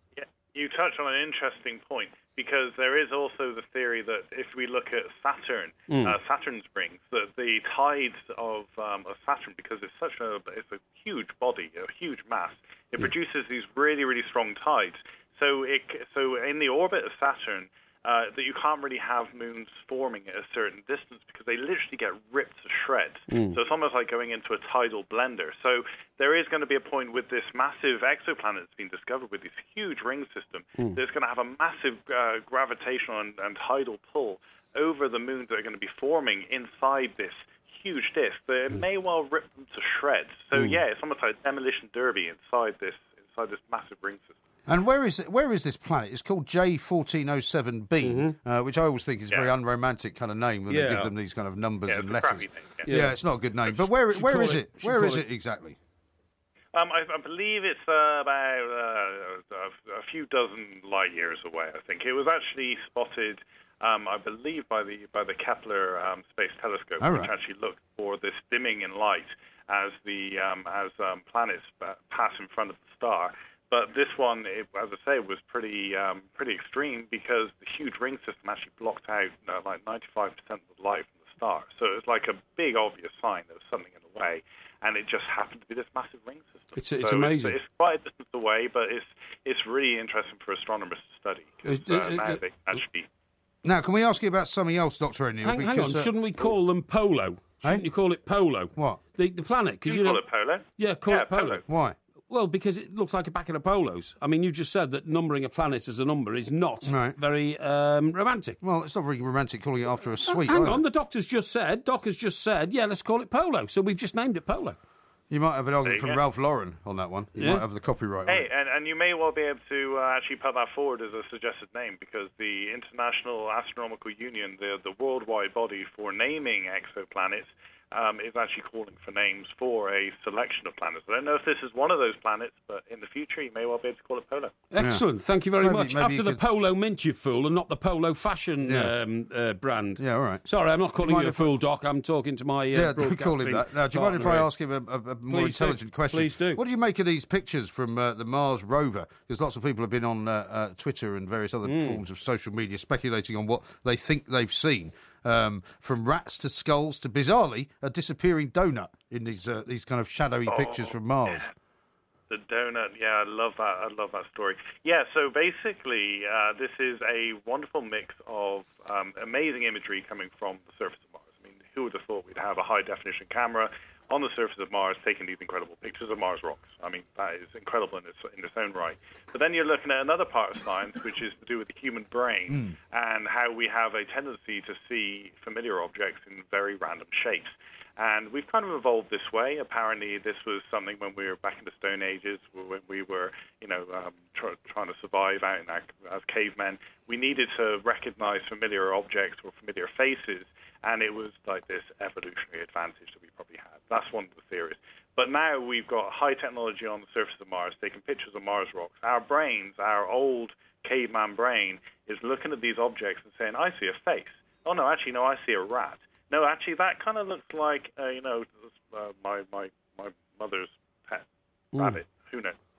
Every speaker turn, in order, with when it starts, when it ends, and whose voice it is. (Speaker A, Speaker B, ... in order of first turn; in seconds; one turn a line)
Speaker A: 0.2-44.3
Speaker B: 5.9-6.2
Speaker B: 23.3-23.6
Speaker B: 40.5-40.8
Speaker C: 44.7-55.8
Speaker B: 48.0-48.3
Speaker B: 50.7-51.1
Speaker A: 51.9-52.8
Speaker B: 52.8-53.1
Speaker B: 54.1-55.2
Speaker A: 56.7-93.1
Speaker C: 67.0-67.3
Speaker B: 86.8-87.5
Speaker B: 91.6-92.4
Speaker C: 93.6-96.1
Speaker B: 95.4-100.2
Speaker A: 99.8-101.6
Speaker B: 100.8-101.6
Speaker C: 101.7-102.0
Speaker B: 102.3-108.6
Speaker C: 106.8-107.2
Speaker C: 108.6-110.8
Speaker B: 110.2-114.8
Speaker C: 115.3-118.5
Speaker A: 115.8-116.2
Speaker B: 117.4-117.6
Speaker A: 118.3-134.6
Speaker B: 134.7-144.5
Speaker C: 135.6-136.4
Speaker C: 138.7-138.9
Speaker C: 140.0-140.4
Speaker C: 141.0-141.5
Speaker C: 142.7-161.5
Speaker B: 145.3-146.6
Speaker B: 151.6-152.0
Speaker A: 160.5-161.5
Speaker A: 162.3-221.2
Speaker B: 221.7-222.0
Speaker A: 221.8-222.6